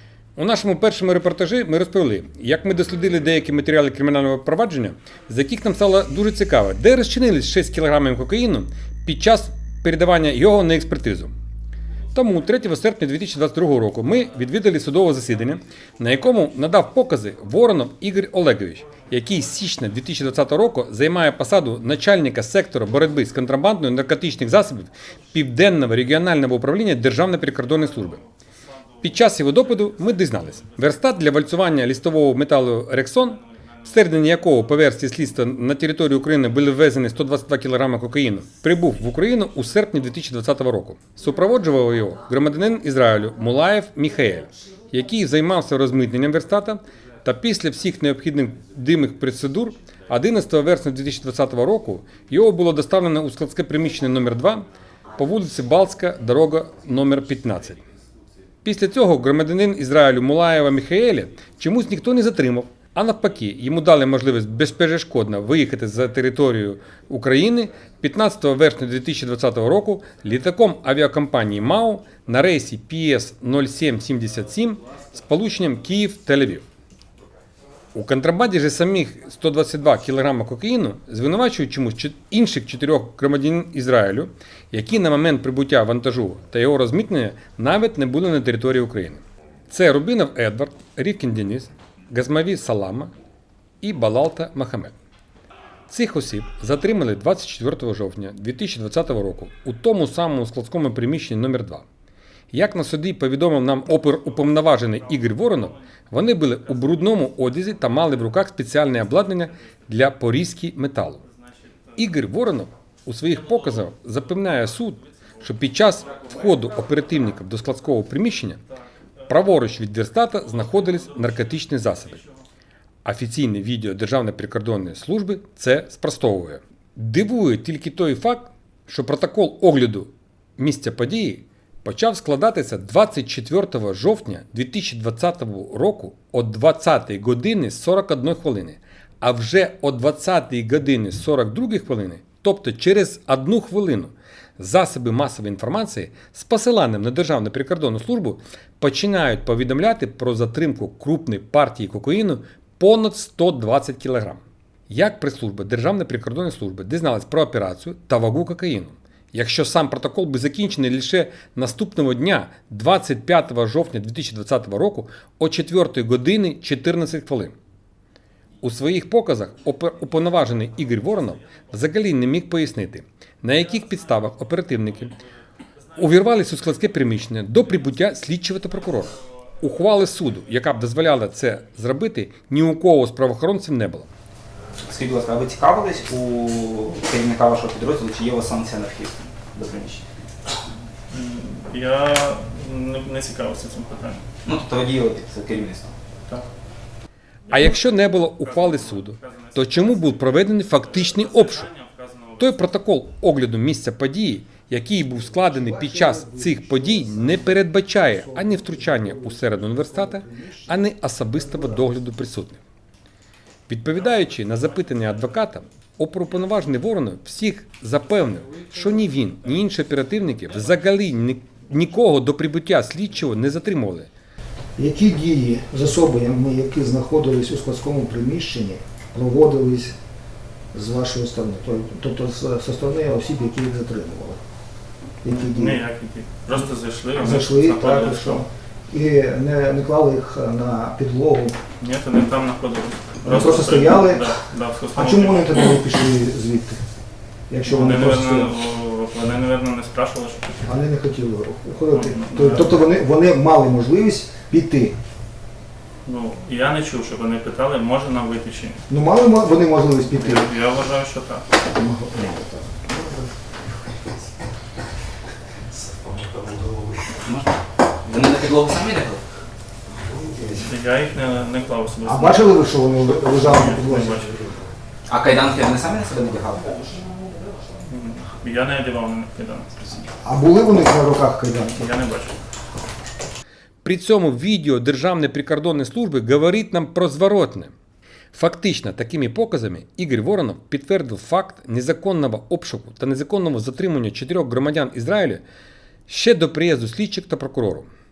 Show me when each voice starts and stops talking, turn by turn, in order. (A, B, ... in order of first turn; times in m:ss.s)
0:00.4-0:11.3 A
0:12.1-0:28.2 A
0:28.0-0:28.3 B
0:29.0-0:31.4 B
0:29.0-0:57.8 A
0:33.4-0:34.2 B
0:58.6-1:16.6 A
1:17.9-1:33.1 A
1:33.8-1:34.9 A
1:35.9-1:41.8 A
1:42.5-1:51.2 A
1:44.2-1:45.8 B
1:46.5-1:48.2 B
1:49.0-1:49.3 B
1:51.2-1:52.0 B
1:52.0-1:58.6 A
1:53.5-1:57.1 B
1:59.3-2:02.2 A
2:00.5-2:01.5 B
2:03.0-2:47.6 A
2:48.6-2:55.2 A
2:50.9-2:51.7 B
2:53.7-2:55.3 B
2:56.0-3:04.1 A
2:56.2-2:56.5 B
2:57.6-2:57.9 B
3:04.9-3:10.0 C
3:11.1-3:14.2 B
3:14.4-3:16.0 C
3:17.5-3:21.7 A
3:17.6-3:22.5 B
3:22.4-3:32.6 A
3:25.3-3:30.8 D
3:31.4-3:31.8 D
3:33.7-3:44.1 A
3:44.8-3:50.0 D
3:50.7-3:54.4 D
3:55.2-3:55.8 D
3:55.2-3:58.4 B
3:57.2-4:01.6 D
4:01.8-4:05.8 B
4:03.2-4:04.4 D
4:04.9-4:06.8 D
4:07.5-4:08.5 D
4:07.7-4:10.6 B
4:10.6-4:15.0 D
4:11.9-4:12.8 B
4:16.0-4:18.8 B
4:18.9-4:20.5 D
4:20.2-4:21.5 B
4:21.7-4:23.3 D
4:25.7-4:27.2 D
4:27.2-4:29.2 C
4:29.9-4:30.7 D
4:30.6-4:34.3 B
4:32.0-4:34.7 D
4:35.1-4:37.0 C
4:37.8-4:40.1 B
4:40.2-4:41.9 D
4:41.8-4:42.4 B
4:43.8-4:47.7 A
4:48.3-4:55.4 A
4:56.1-4:57.9 A